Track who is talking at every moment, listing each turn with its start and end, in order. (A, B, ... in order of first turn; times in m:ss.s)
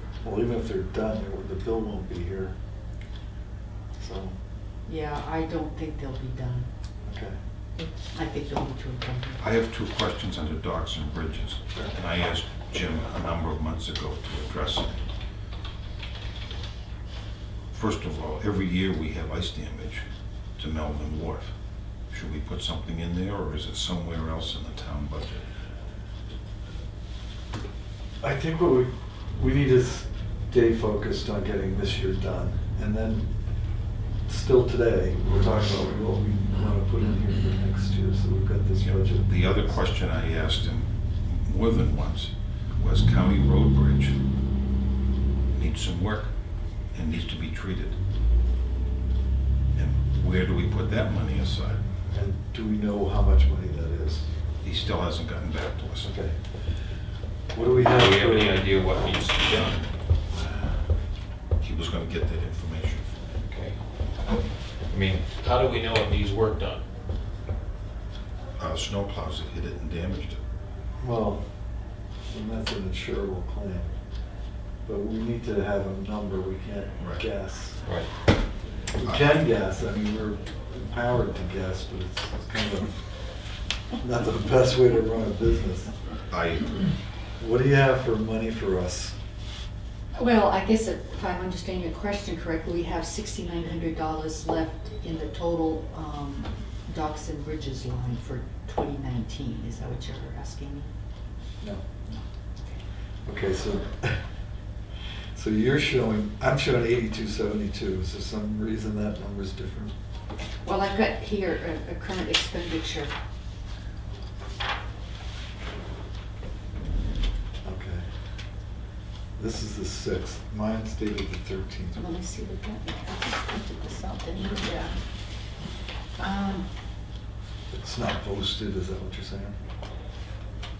0:00.2-0:02.5 A
0:04.0-0:04.4 A
0:04.8-0:06.7 B
0:07.0-0:07.3 A
0:08.1-0:09.4 B
0:09.4-0:15.0 C
0:17.7-0:20.0 C
0:20.6-0:21.5 C
0:22.1-0:25.4 C
0:28.2-0:33.3 A
0:34.3-0:39.8 A
0:38.8-0:44.1 C
0:45.5-0:46.3 C
0:46.9-0:48.0 C
0:49.8-0:51.8 C
0:52.1-0:54.3 A
0:54.6-0:56.1 C
0:56.0-0:56.4 A
0:57.5-0:58.6 A
0:57.8-0:59.9 D
1:01.6-1:03.2 C
1:03.4-1:03.8 D
1:04.9-1:06.8 D
1:08.6-1:10.4 C
1:11.0-1:11.4 A
1:12.3-1:13.9 A
1:14.8-1:17.8 A
1:18.9-1:23.1 A
1:24.0-1:25.9 A
1:26.3-1:26.8 C
1:27.4-1:29.1 A
1:30.1-1:40.9 B
1:41.6-1:41.8 A
1:42.1-1:42.8 B
1:43.2-1:44.2 A
1:45.3-1:49.9 A
1:50.6-1:53.1 B
1:57.6-1:58.0 A
1:59.4-2:02.1 A
2:02.0-2:05.0 B
2:06.2-2:06.7 B
2:07.7-2:09.6 A